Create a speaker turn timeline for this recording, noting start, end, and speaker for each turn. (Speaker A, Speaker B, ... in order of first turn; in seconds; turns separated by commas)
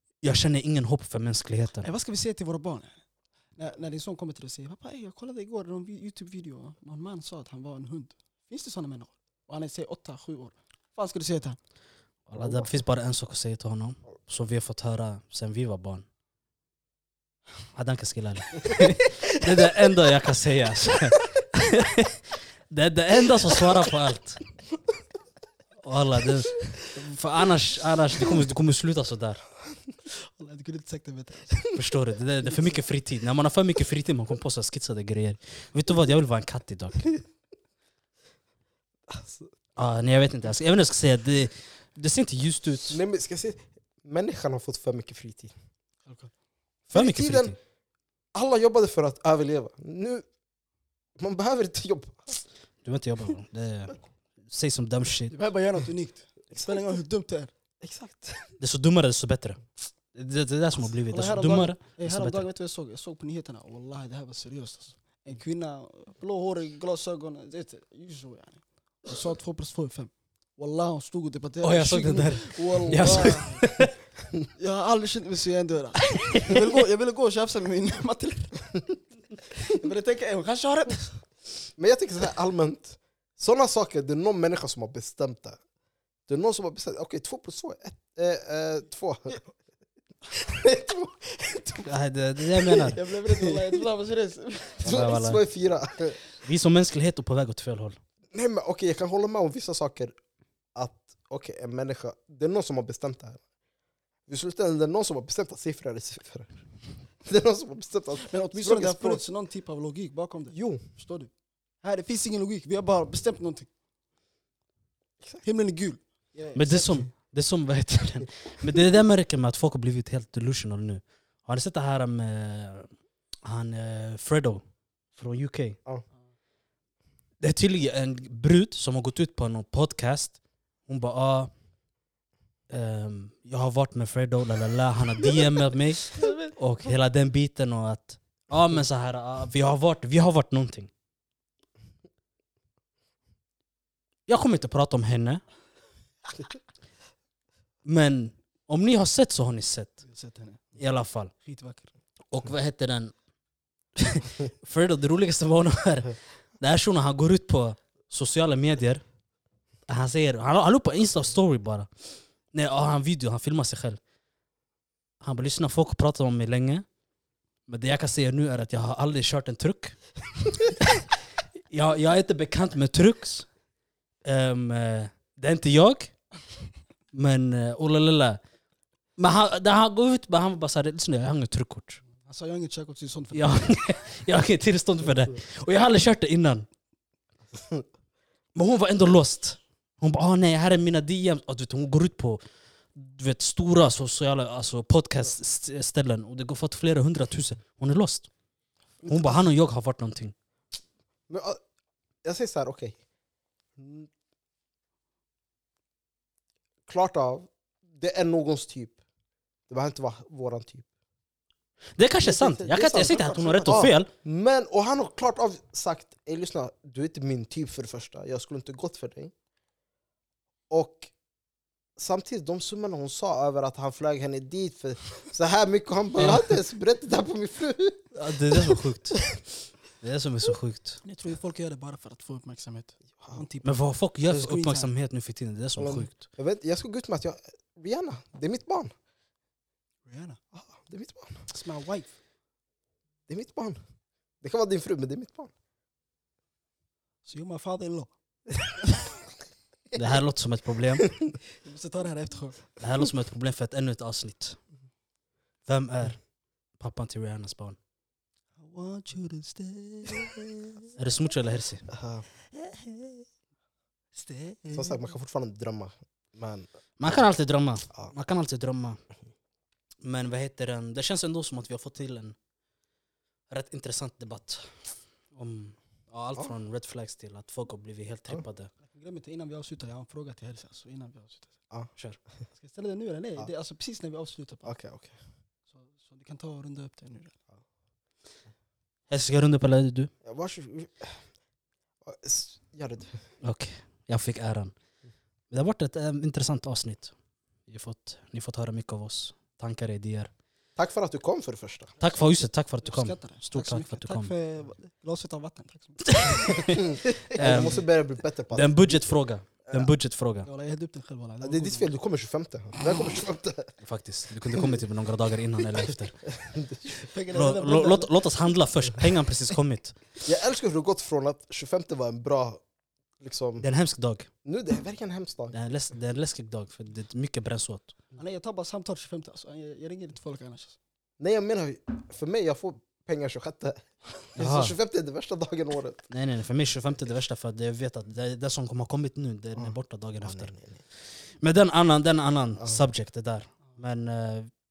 Speaker A: 0.2-1.9, Speaker B: 1.8-3.0, Speaker B: 3.5-11.6, Speaker A: 12.3-16.1, Speaker A: 17.7-24.5, Speaker A: 25.8-29.4, Speaker B: 30.1-31.7, Speaker A: 31.7-37.1, Speaker C: 39.1-39.5, Speaker A: 39.8-43.0, Speaker C: 42.9-45.5, Speaker B: 46.0-46.3, Speaker C: 46.9-47.5, Speaker A: 46.9-47.5, Speaker C: 48.3-50.2, Speaker C: 51.2-52.4, Speaker A: 52.8-55.3, Speaker B: 55.3-57.5, Speaker C: 57.8-58.5, Speaker A: 58.6-59.6, Speaker A: 60.1-62.5, Speaker B: 61.1-73.6, Speaker A: 71.6-73.9, Speaker B: 74.6-78.8, Speaker A: 76.2-76.5, Speaker B: 79.5-81.2, Speaker C: 81.8-85.6, Speaker C: 86.3-89.4, Speaker C: 90.3-91.9, Speaker A: 91.8-93.0, Speaker C: 92.4-93.7, Speaker B: 92.9-95.2, Speaker C: 94.8-96.2, Speaker A: 94.8-95.4, Speaker A: 96.4-98.0, Speaker C: 98.3-100.2, Speaker C: 100.7-103.4, Speaker C: 104.3-106.6, Speaker C: 107.2-109.2, Speaker B: 108.2-113.7, Speaker C: 110.5-110.8, Speaker B: 115.4-117.1, Speaker A: 116.5-122.9, Speaker A: 123.4-124.6, Speaker A: 125.2-125.8, Speaker A: 127.4-131.5, Speaker A: 132.7-140.9, Speaker B: 136.2-136.5, Speaker A: 144.3-145.4, Speaker A: 147.8-150.0, Speaker B: 150.1-150.6, Speaker A: 150.8-151.3, Speaker B: 151.4-151.9, Speaker A: 152.3-153.1, Speaker A: 153.9-159.0, Speaker A: 159.9-161.9, Speaker A: 162.5-164.0, Speaker A: 165.2-166.8, Speaker A: 167.7-171.1, Speaker A: 171.7-173.5, Speaker A: 174.2-176.1, Speaker A: 177.1-178.4, Speaker A: 179.2-182.0, Speaker B: 182.2-183.7, Speaker A: 183.3-186.7, Speaker C: 187.5-187.8, Speaker A: 188.6-192.4, Speaker A: 192.9-198.3, Speaker C: 199.0-199.3, Speaker A: 199.0-200.3, Speaker C: 201.3-201.6, Speaker C: 202.2-203.0, Speaker C: 203.8-204.1, Speaker C: 206.9-209.0, Speaker C: 209.7-210.9, Speaker A: 211.9-214.1, Speaker C: 212.2-219.3, Speaker C: 220.7-221.1, Speaker C: 222.0-228.8, Speaker A: 226.2-226.5, Speaker A: 228.1-229.3, Speaker A: 230.0-231.0, Speaker B: 231.0-233.7, Speaker C: 233.2-233.4, Speaker A: 233.6-236.2, Speaker B: 234.3-234.9, Speaker C: 235.8-238.9, Speaker B: 240.1-240.4, Speaker C: 240.5-241.5, Speaker B: 241.5-242.1, Speaker C: 243.3-243.8, Speaker C: 244.4-245.5, Speaker B: 247.2-248.1, Speaker A: 249.9-251.1, Speaker B: 251.6-252.6, Speaker A: 252.8-254.6, Speaker A: 255.7-256.2, Speaker A: 256.8-257.8, Speaker B: 258.6-260.5, Speaker A: 260.9-261.9, Speaker C: 261.9-262.2, Speaker B: 262.6-263.1, Speaker B: 264.1-265.0, Speaker C: 264.7-266.7, Speaker A: 267.0-269.0, Speaker A: 270.0-272.4, Speaker A: 273.5-274.8, Speaker A: 275.3-278.7, Speaker B: 278.8-281.5, Speaker B: 282.5-284.7, Speaker C: 284.6-285.2, Speaker B: 285.7-287.3, Speaker A: 289.1-290.1, Speaker C: 290.2-291.2, Speaker C: 292.0-293.2, Speaker A: 293.4-294.7, Speaker A: 295.5-297.1, Speaker A: 297.7-300.3, Speaker C: 300.8-301.9, Speaker A: 302.0-304.3, Speaker B: 302.8-306.6, Speaker A: 306.1-307.8, Speaker C: 306.8-309.1, Speaker B: 307.2-307.7, Speaker A: 308.5-310.5, Speaker B: 310.4-311.9, Speaker C: 311.4-313.7, Speaker A: 313.8-316.2, Speaker C: 316.2-317.0, Speaker B: 317.0-318.1, Speaker A: 317.3-320.1, Speaker C: 320.2-322.6, Speaker C: 323.2-323.7, Speaker A: 323.6-324.3, Speaker C: 324.4-325.5, Speaker A: 325.5-327.9, Speaker B: 328.1-330.8, Speaker C: 331.2-333.8, Speaker C: 334.3-336.1, Speaker A: 334.4-334.8, Speaker A: 336.1-340.5, Speaker C: 339.6-340.8, Speaker A: 341.4-344.5